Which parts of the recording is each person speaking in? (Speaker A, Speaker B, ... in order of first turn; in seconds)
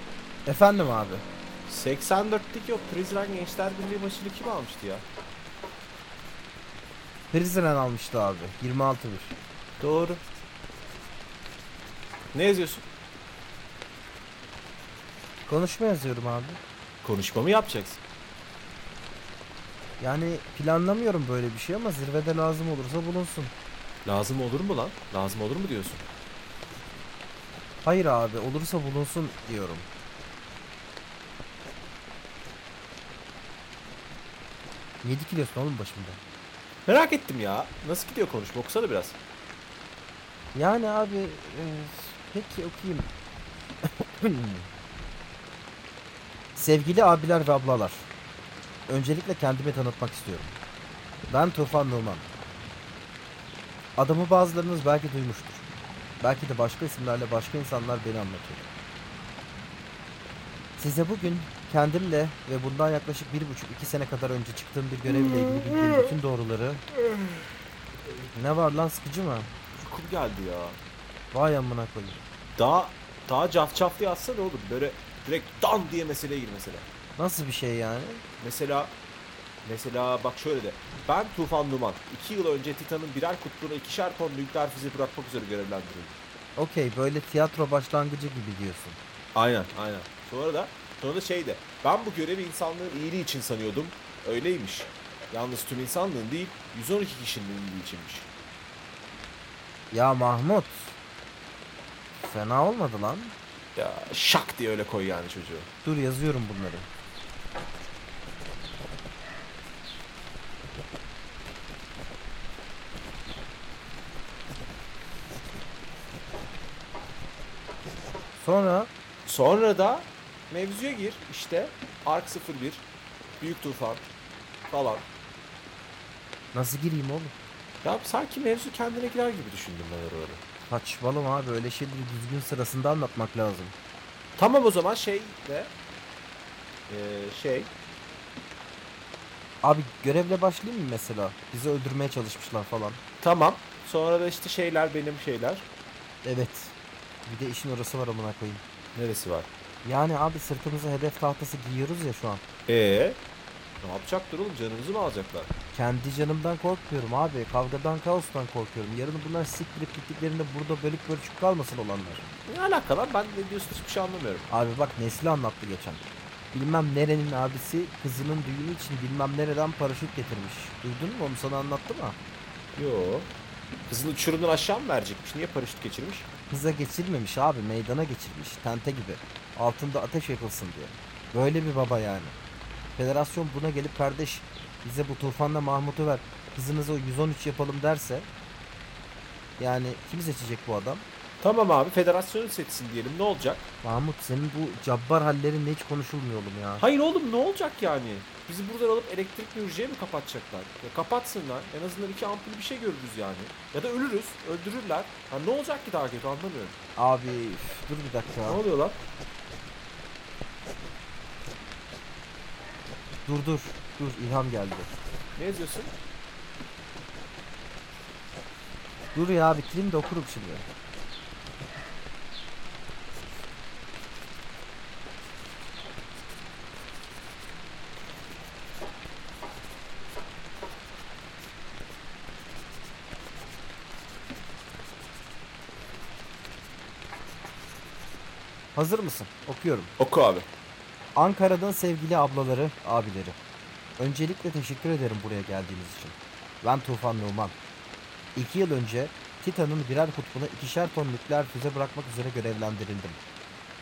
Speaker A: 0.5-1.2, 7.3-9.4, 15.5-16.6, 20.0-23.5, 27.8-29.9, 35.0-36.2, 40.5-43.1, 44.2-44.7, 46.5-48.1, 48.9-50.6, 51.3-52.3, 54.0-55.7, 56.2-58.7, 60.8-66.8, 68.3-69.5, 71.3-72.2, 77.2-78.2, 86.6-89.0, 99.9-101.0, 102.2-103.3, 105.8-106.9, 118.4-118.9, 126.5-127.3, 130.7-133.8, 139.6-143.0, 146.2-148.6, 149.8-152.4, 155.7-162.3, 164.5-172.2, 176.5-182.3, 183.0-188.3, 189.6-191.1, 193.8-196.8, 207.0-208.6, 213.3-214.9, 219.1-220.7, 238.8-239.9, 241.2-243.4, 244.0-247.6, 248.3-253.2
Speaker B: 1.7-5.0, 9.8-10.2, 12.3-12.8, 17.0-18.0, 24.1-26.0, 36.9-39.2, 65.1-66.1, 67.0-67.4, 69.8-70.8, 72.6-76.9, 78.4-79.0, 79.7-86.2, 89.3-98.3, 103.8-105.7, 119.3-122.9, 123.4-124.0, 124.7-125.1, 127.8-130.4, 134.4-135.7, 136.9-137.7, 143.2-145.7, 148.9-149.5, 152.7-153.2, 153.8-155.5, 162.5-164.5, 172.8-173.3, 173.9-176.3, 191.4-193.7, 196.8-206.8, 208.5-209.0, 215.4-215.9, 240.0-240.5